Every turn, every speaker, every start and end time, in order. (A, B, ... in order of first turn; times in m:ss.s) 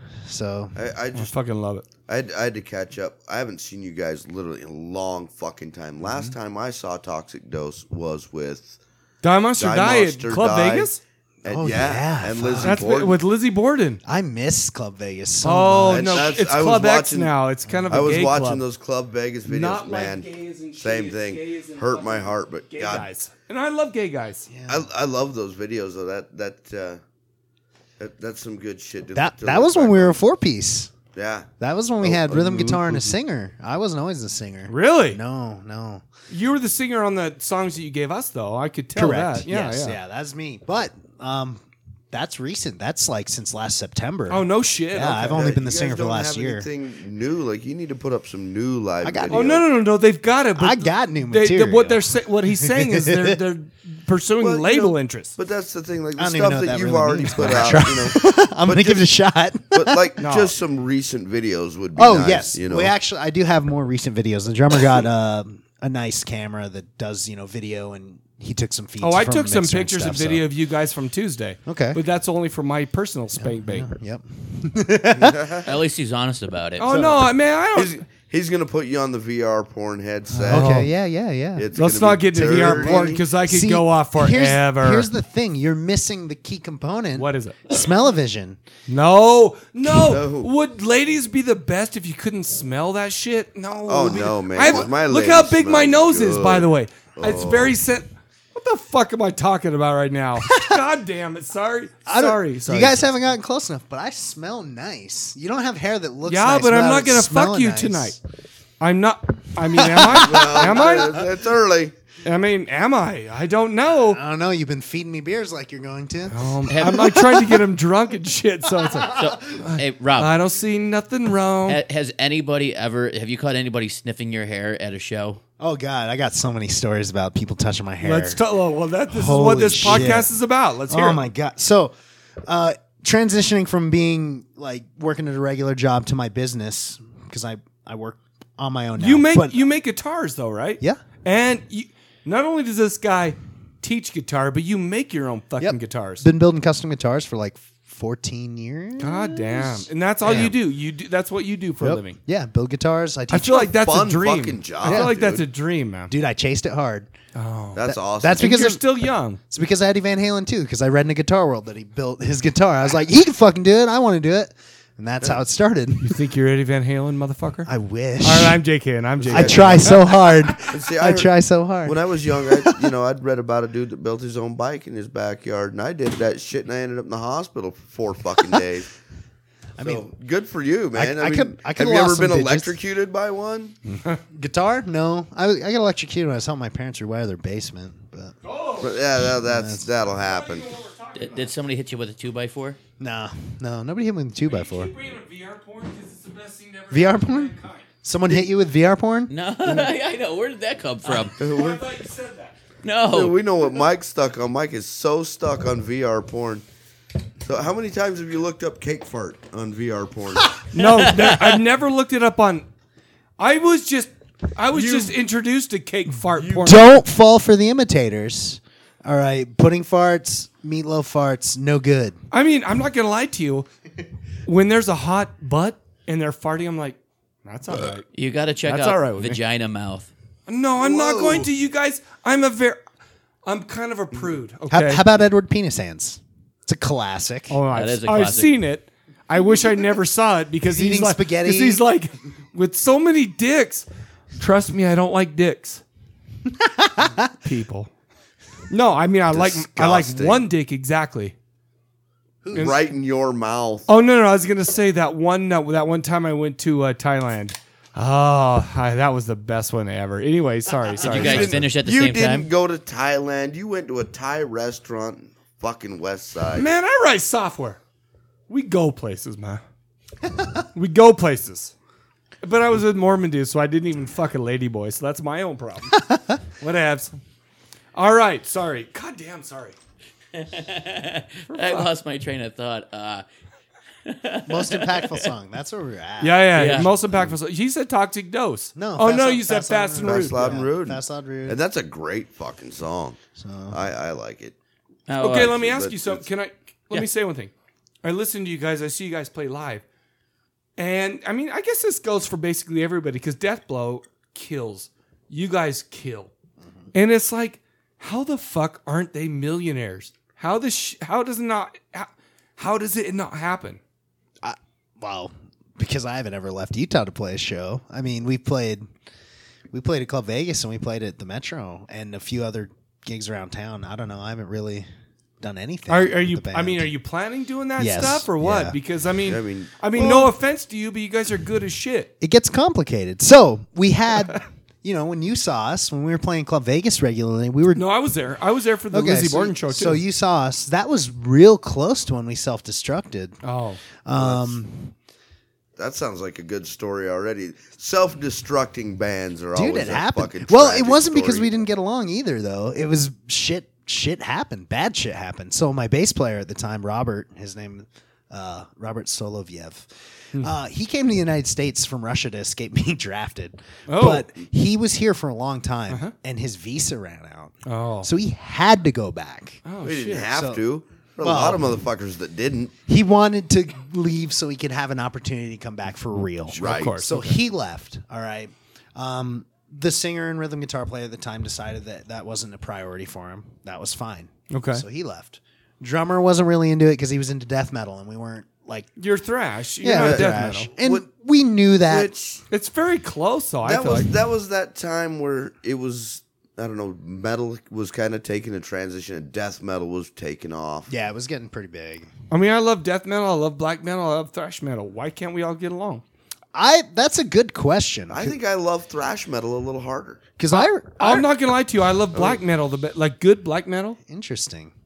0:00.2-0:00.8 A
0:00.8-0:01.3 B
0:01.1-0:01.8 C
0:02.1-0:08.8 B
0:06.0-0:06.3 A
0:09.2-0:11.0 C
0:09.6-0:13.2 B
0:11.5-0:12.8 A
0:12.6-0:14.0 C
0:14.0-0:16.4 A
0:15.4-0:18.6 C
0:15.9-0:17.3 B
0:17.9-0:23.1 B
0:19.5-0:24.5 C
0:24.5-0:24.9 A
0:24.7-0:27.0 B
0:28.0-0:30.2 B
0:29.1-0:30.9 A
0:31.1-0:31.5 B
0:31.6-0:36.0 A
0:32.0-0:33.2 B
0:34.7-0:35.2 C
0:36.3-0:40.0 C
0:39.0-0:41.6 A
0:42.1-0:46.7 A
0:44.3-0:45.4 C
0:45.3-0:49.7 B
0:49.0-0:49.5 A
0:49.3-0:55.4 C
0:50.6-0:53.4 A
0:54.4-0:59.0 B
0:56.2-1:00.0 A
0:59.7-1:02.9 B
1:00.2-1:00.5 C
1:02.0-1:10.5 A
1:09.0-1:14.0 C
1:11.7-1:12.0 A
1:13.4-1:15.6 A
1:15.2-1:15.7 B
1:15.6-1:16.9 D
1:16.8-1:18.0 C
1:16.9-1:17.3 A
1:17.7-1:20.9 B
1:20.4-1:20.9 C
1:20.4-1:21.7 A
1:21.6-1:23.2 B
1:21.8-1:25.1 C
1:22.3-1:28.6 A
1:27.2-1:27.8 C
1:28.9-1:43.1 C
1:30.0-1:30.5 B
1:33.9-1:37.8 B
1:34.6-1:34.9 A
1:40.4-1:40.8 A
1:42.1-1:48.2 A
1:46.2-1:48.2 C
1:48.8-1:51.2 C
1:49.7-1:51.2 A
1:50.1-1:52.0 B
1:52.2-1:54.2 C
1:54.1-1:57.6 A
1:56.3-2:01.8 C
1:56.7-1:57.2 D
1:58.7-1:59.4 A
1:59.1-2:00.4 D
2:01.7-2:05.4 D
2:05.6-2:08.4 A
2:08.0-2:11.2 C
2:09.1-2:10.3 A
2:10.9-2:19.7 A
2:19.0-2:26.3 C
2:25.6-2:30.6 A
2:29.0-2:32.2 C
2:31.8-2:33.8 A
2:33.3-2:36.1 C
2:33.7-2:35.5 B
2:34.8-2:35.2 A
2:36.1-2:37.1 A
2:37.4-2:39.4 C
2:37.8-2:38.6 B
2:37.8-2:38.8 A
2:39.5-2:46.2 A
2:46.0-2:47.7 C
2:47.6-2:48.6 A
2:48.2-2:50.3 C
2:49.2-2:50.0 B
2:49.3-2:52.9 A
2:50.7-2:51.3 B
2:51.8-2:58.9 B
2:59.8-3:00.1 A
2:59.8-3:03.8 B
3:00.9-3:02.8 A
3:04.3-3:08.4 A
3:08.4-3:09.0 C
3:08.8-3:10.7 B
3:09.2-3:09.9 A
3:10.2-3:11.5 C
3:11.2-3:12.8 D
3:13.0-3:14.9 A
3:14.5-3:17.8 C
3:16.9-3:19.3 A
3:19.3-3:21.4 D
3:21.1-3:22.6 C
3:21.4-3:21.8 B
3:22.8-3:23.4 D
3:23.1-3:26.6 B
3:27.4-3:30.6 B
3:30.7-3:32.7 C
3:33.4-3:36.9 C
3:34.7-3:35.1 B
3:36.4-3:36.7 B
3:36.6-3:42.2 A
3:42.3-3:43.7 C
3:44.5-3:48.1 C
3:48.1-3:50.1 D
3:48.6-3:49.4 C
3:50.5-3:52.8 C
3:50.8-3:51.5 B
3:53.5-3:55.1 C
3:54.7-3:57.6 A
3:57.5-4:03.9 C
3:57.7-3:58.6 D
4:00.6-4:01.8 A
4:04.4-4:05.8 C
4:06.5-4:07.3 A
4:07.4-4:07.9 C
4:08.7-4:11.3 C
4:09.3-4:10.5 B
4:12.4-4:12.8 A
4:12.5-4:13.9 B
4:13.9-4:21.6 C
4:21.0-4:22.5 D
4:21.0-4:26.7 B
4:26.6-4:27.8 C
4:28.5-4:29.6 C
4:30.8-4:31.7 C
4:32.4-4:36.0 C
4:36.6-4:37.2 C
4:38.0-4:39.8 C
4:40.3-4:43.2 D
4:41.5-4:41.9 C
4:44.0-4:45.3 D
4:44.5-4:47.4 A
4:46.2-4:50.4 C
4:46.6-4:46.9 D
4:48.8-4:51.6 A
4:50.0-4:53.2 B
4:53.4-4:53.8 A
4:53.7-4:54.6 B
4:55.1-4:55.5 D
4:55.2-4:57.5 C
4:55.3-4:56.3 B
4:58.0-4:59.8 C
5:00.8-5:06.3 C
5:06.6-5:06.9 A
5:06.9-5:13.8 C
5:14.4-5:18.9 A
5:19.7-5:24.9 A
5:25.4-5:26.9 A
5:25.9-5:32.1 C
5:27.8-5:28.8 A
5:29.2-5:29.7 B
5:30.0-5:30.3 A
5:32.2-5:37.9 A
5:37.8-5:40.0 C
5:38.9-5:43.4 A
5:43.4-5:43.8 C
5:44.0-5:44.9 A
5:44.1-5:44.6 B
5:45.8-5:51.6 B
5:49.5-6:09.6 A
6:03.9-6:04.3 C
6:07.7-6:08.1 C
6:09.6-6:10.3 C
6:09.8-6:12.8 B
6:10.3-6:10.6 A
6:11.2-6:11.8 A
6:12.9-6:28.9 A
6:16.5-6:17.4 C
6:16.5-6:17.0 B
6:24.5-6:24.8 C
6:29.0-6:30.7 C
6:29.8-6:32.1 A
6:29.9-6:31.0 B
6:31.9-6:32.4 B
6:32.5-6:34.1 C
6:33.6-6:40.9 B
6:40.9-6:42.1 A
6:42.3-6:46.0 C
6:46.5-6:48.4 A
6:48.1-6:50.2 B
6:50.4-6:51.3 A
6:50.5-6:54.0 C
6:52.1-6:52.4 B
6:54.0-6:54.7 A